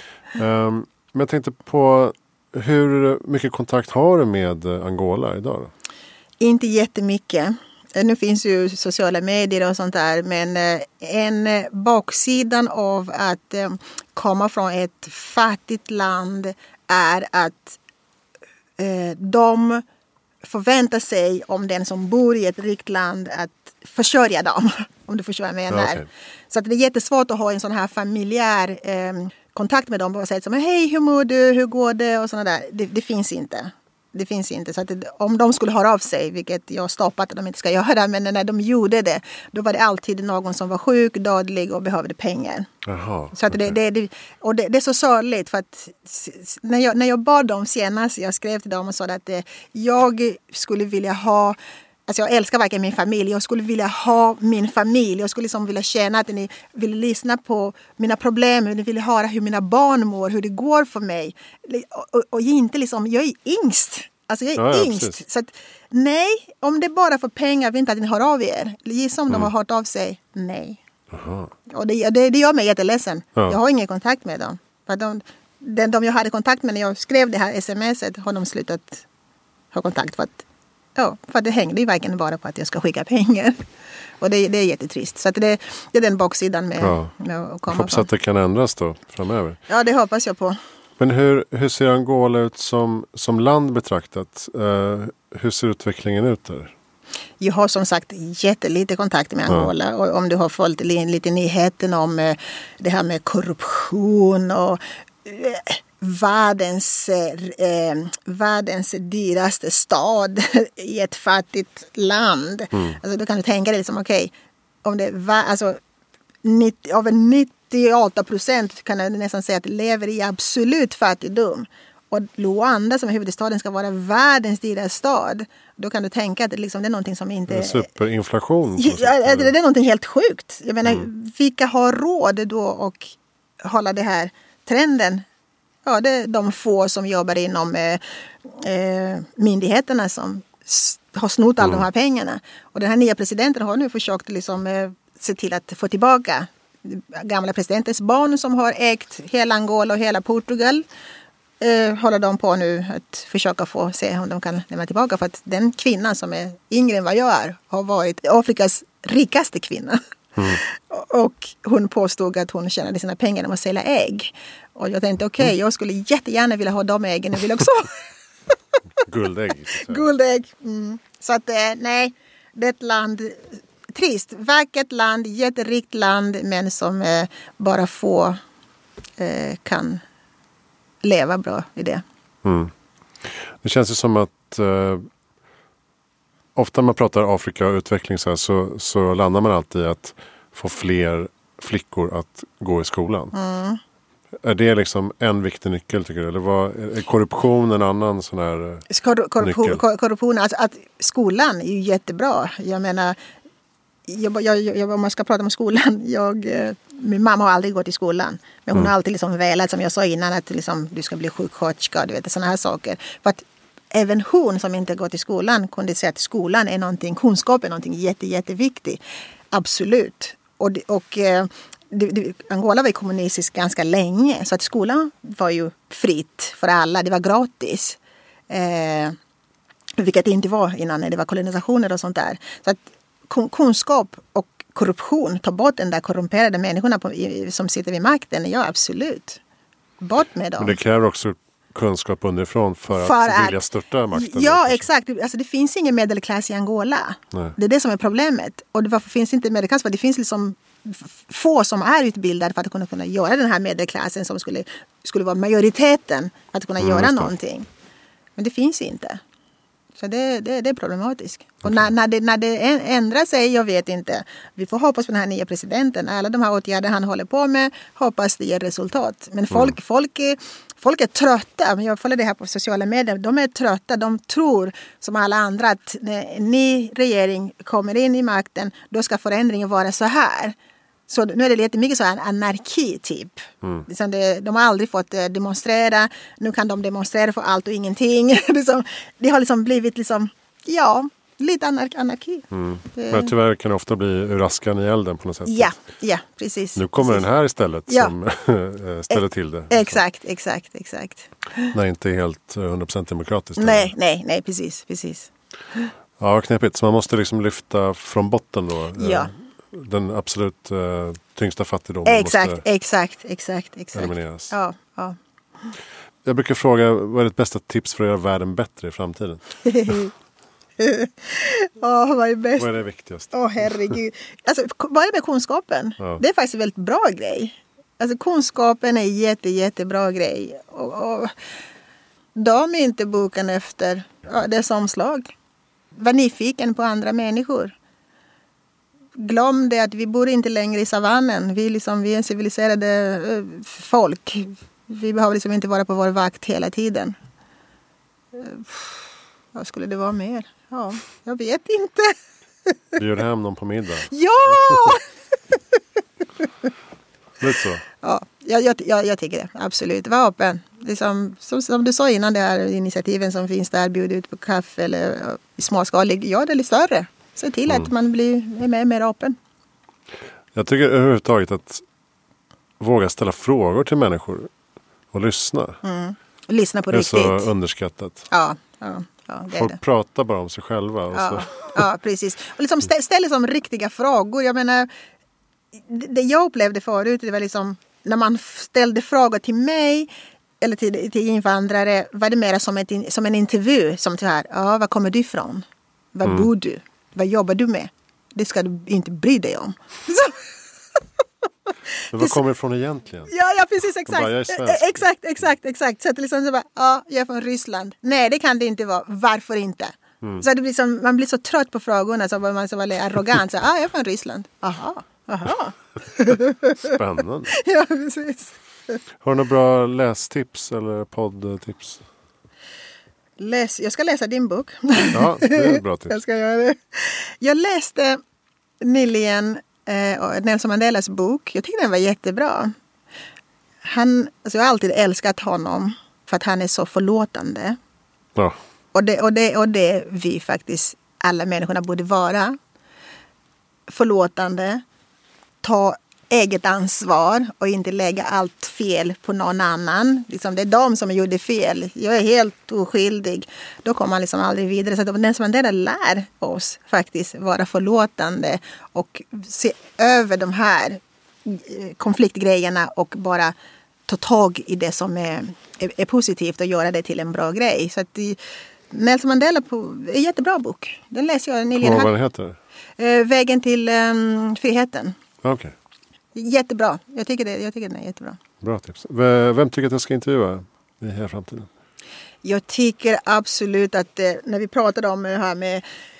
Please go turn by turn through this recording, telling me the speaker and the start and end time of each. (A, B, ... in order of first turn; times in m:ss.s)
0:00.4-0:05.7 A
0:06.4-0:17.8 B
0:18.8-0:19.8 B
0:20.4-0:42.7 B
0:25.7-0:26.0 A
0:42.8-0:43.7 A
0:43.3-1:10.8 B
1:04.6-1:05.2 A
1:11.1-1:11.5 A
1:11.7-1:19.0 B
1:19.7-1:20.4 B
1:21.0-1:23.6 B
1:24.2-1:28.1 B
1:26.8-1:27.1 A
1:27.7-1:29.6 A
1:29.7-1:30.6 B
1:31.0-1:36.7 A
1:37.4-1:54.3 B
1:54.8-1:55.8 B
1:56.4-2:07.8 B
2:07.5-2:09.5 A
2:08.8-2:15.2 B
2:15.8-2:30.8 B
2:31.6-2:48.0 B
2:40.4-2:40.6 A
2:49.0-2:50.1 A
2:49.7-2:58.4 B
2:59.2-3:00.0 B
3:01.0-3:02.0 B
3:02.4-3:05.0 A
3:06.5-3:13.3 A
3:13.3-3:13.8 B
3:14.4-3:18.9 A
3:18.9-3:23.2 B
3:19.4-3:19.8 A
3:24.1-3:39.0 B
3:39.5-3:49.2 B
3:50.0-3:59.4 B
4:00.0-4:00.8 B
4:00.6-4:04.8 A
4:02.9-4:03.6 B
4:04.1-4:17.6 B
4:16.8-4:17.3 A
4:18.4-4:19.2 B
4:20.0-4:40.6 B
4:41.1-4:53.3 B
4:52.5-4:55.7 A
4:55.4-4:57.2 B
4:56.8-5:00.0 A
4:57.9-4:58.1 B
4:59.1-5:01.7 B
5:01.7-5:03.9 A
5:03.6-5:05.9 B
5:06.2-5:12.6 A
5:09.0-5:09.3 B
5:12.0-5:15.2 B
5:13.9-5:14.5 A
5:16.2-5:20.0 A
5:19.6-5:20.1 B
5:20.8-5:22.8 B
5:22.6-5:23.3 A
5:23.3-5:31.3 B
5:32.3-5:35.3 B
5:35.9-5:37.7 B
5:39.2-5:47.2 B
5:48.3-5:49.0 B
5:49.5-5:52.1 B
5:52.6-5:53.0 B
5:53.0-5:54.9 A
5:54.1-5:55.8 B
5:57.4-5:57.8 A
5:58.0-6:09.4 B
6:10.5-6:11.8 A
6:12.8-6:14.5 A
6:15.1-6:15.8 A
6:15.8-6:17.5 B
6:16.9-6:18.2 A
6:18.3-6:19.8 B
6:19.5-6:21.8 A
6:21.1-6:24.9 B
6:25.7-6:30.1 B
6:30.6-6:40.5 B
6:42.1-6:43.3 A
6:43.3-6:57.0 B
6:44.1-6:45.0 A
6:56.8-6:57.5 A
6:57.5-6:59.0 B
6:59.2-7:02.0 A
7:03.4-7:08.2 B
7:05.1-7:06.2 A
7:08.8-7:12.7 B
7:13.8-7:17.8 B
7:18.9-7:22.6 B
7:23.9-7:24.8 B
7:25.6-7:43.5 B
7:44.1-7:48.4 B
7:48.9-7:52.1 B
7:51.8-7:52.6 A
7:53.0-7:55.2 B
7:55.4-7:55.7 A
7:56.3-7:58.4 B
7:58.6-8:01.7 A
8:02.4-8:05.8 B